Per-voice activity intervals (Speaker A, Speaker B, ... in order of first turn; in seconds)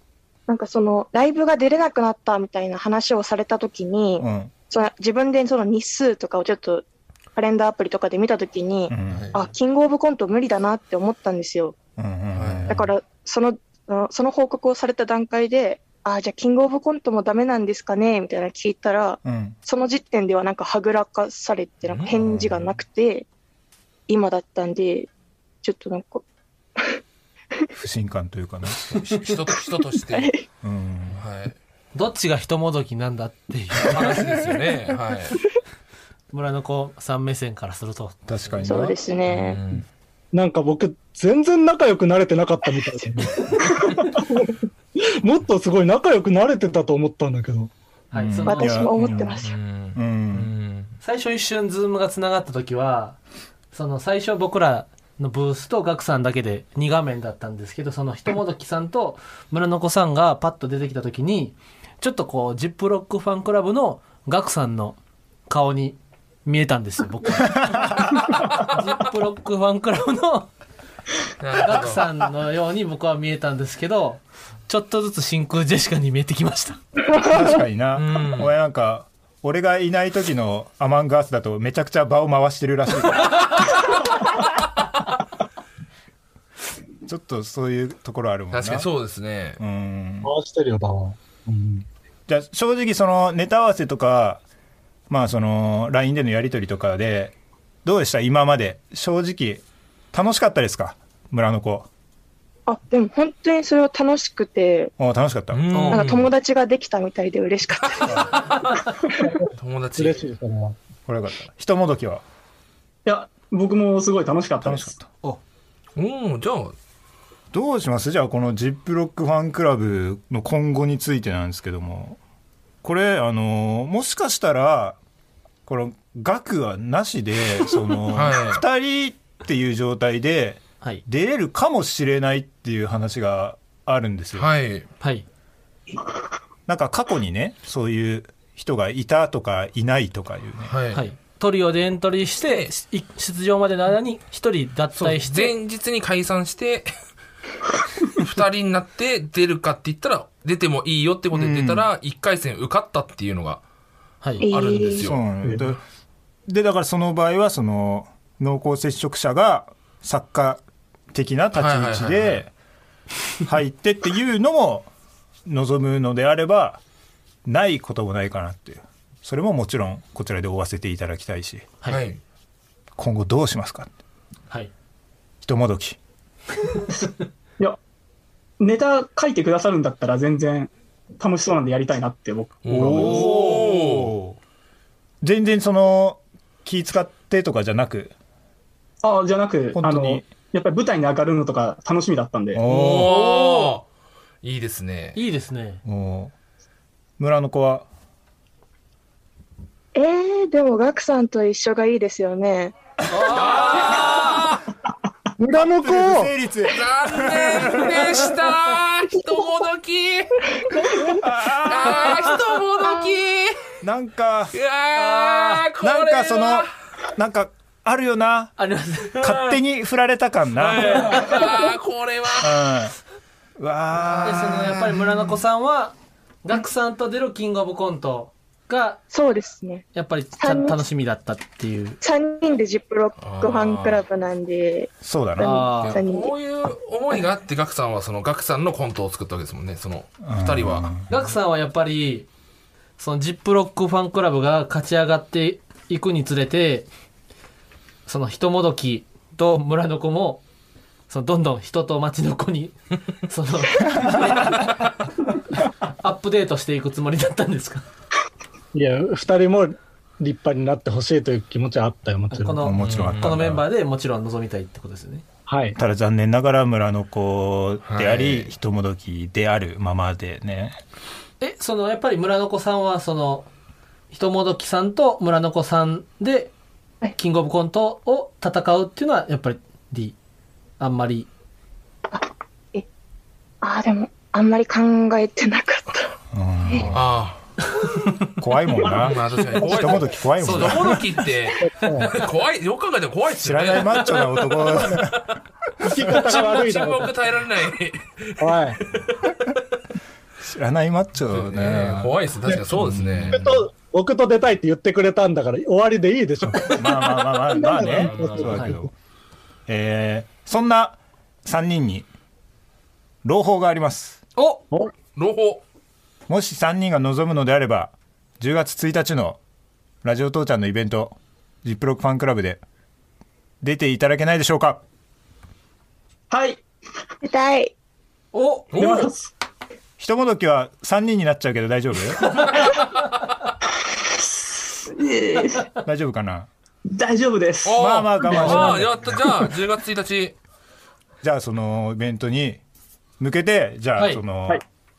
Speaker A: 0.5-6.8, 7.3-11.8, 12.7-23.3, 24.1-25.1, 25.6-26.2, 30.1-30.4, 38.6-39.6, 48.4-49.5, 102.7-104.9, 105.9-108.4, 154.4-155.1, 199.9-202.8, 229.1-229.8, 230.4-230.8, 232.0-236.3, 282.1-282.8, 283.6-286.1, 327.2-327.7
Speaker B: 4.2-4.5, 8.9-9.2, 12.0-12.9, 19.2-19.6, 22.1-22.8, 27.8-29.0, 30.6-31.2, 38.3-39.0, 48.1-50.5, 67.5-68.1, 77.2-83.6, 87.0-88.9, 89.6-90.3, 92.3-94.4, 95.1-101.9, 105.0-105.6, 111.1-112.2, 114.6-115.1, 117.5-122.2, 122.8-125.0, 125.7-134.5, 136.7-140.7, 151.3-151.9, 155.0-155.8, 156.5-160.6, 161.1-162.5, 163.4-164.9, 165.4-166.8, 167.4-171.7, 172.9-173.9, 175.4-176.0, 182.7-184.4, 185.2-188.1, 189.7-190.2, 192.5-193.2, 195.8-196.3, 197.2-197.9, 205.6-208.2, 211.1-212.3, 213.8-214.5, 215.8-218.6, 219.2-221.2, 222.3-222.9, 223.6-224.9, 235.0-235.6, 240.2-241.1, 262.6-263.6, 265.8-270.8, 286.3-287.0, 288.4-291.1, 293.4-295.2, 300.4-303.6, 306.5-308.9, 309.7-312.1, 313.2-314.2, 316.3-319.4, 320.0-322.6, 323.6-324.8, 330.0-332.4, 335.8-336.5, 337.7-339.3, 341.2-342.6, 343.2-344.6
Speaker C: 9.1-9.4, 12.3-12.8, 21.9-22.1, 28.9-30.3, 31.1-31.5, 33.9-35.4, 39.3-39.8, 49.1-50.9, 71.4-72.0, 77.9-78.5, 88.5-89.6, 105.5-106.3, 109.6-110.2, 116.0-116.7, 128.1-128.6, 134.3-134.9, 140.7-141.0, 145.0-146.9, 148.1-153.6, 154.4-155.2, 161.5-162.4, 171.9-172.2, 182.6-184.1, 192.7-193.8, 194.4-195.2, 203.3-204.6, 206.7-210.5, 211.7-213.7, 214.5-216.7, 219.2-219.6, 220.6-222.6, 224.0-224.7, 233.2-234.0, 235.8-240.9, 262.8-263.5, 267.8-268.5, 286.9-287.4, 288.8-294.9, 296.0-299.4, 301.3-303.4, 307.9-308.5, 315.1-315.6, 328.7-329.1, 337.6-340.3
Speaker D: 31.9-34.2, 36.3-38.8, 48.1-48.9, 51.0-53.2, 53.7-70.5, 71.6-76.8, 105.7-106.1, 135.0-135.2, 140.9-145.5, 154.2-154.5, 193.0-193.7, 195.1-195.8, 203.1-204.4, 214.9-215.6, 218.6-219.3, 224.2-229.0, 229.9-232.0, 235.4-236.0, 241.1-242.3, 243.0-246.9, 248.1-250.4, 251.1-252.8, 253.3-254.9, 255.8-257.9, 262.3-265.2, 271.4-273.5, 274.1-276.5, 277.1-280.1, 280.8-281.3, 290.4-291.0, 314.4-314.6, 328.3-328.7, 338.3-338.8, 344.0-344.2
Speaker E: 40.3-47.7, 90.2-91.8, 109.2-110.8, 205.4-206.3, 258.7-262.6, 265.5-265.8, 291.6-292.2, 295.8-297.1, 298.4-298.8, 303.3-308.8
Speaker F: 113.0-114.9, 178.6-183.2, 189.0-192.6, 326.3-326.6, 328.8-329.3, 334.2-335.7, 336.9-337.8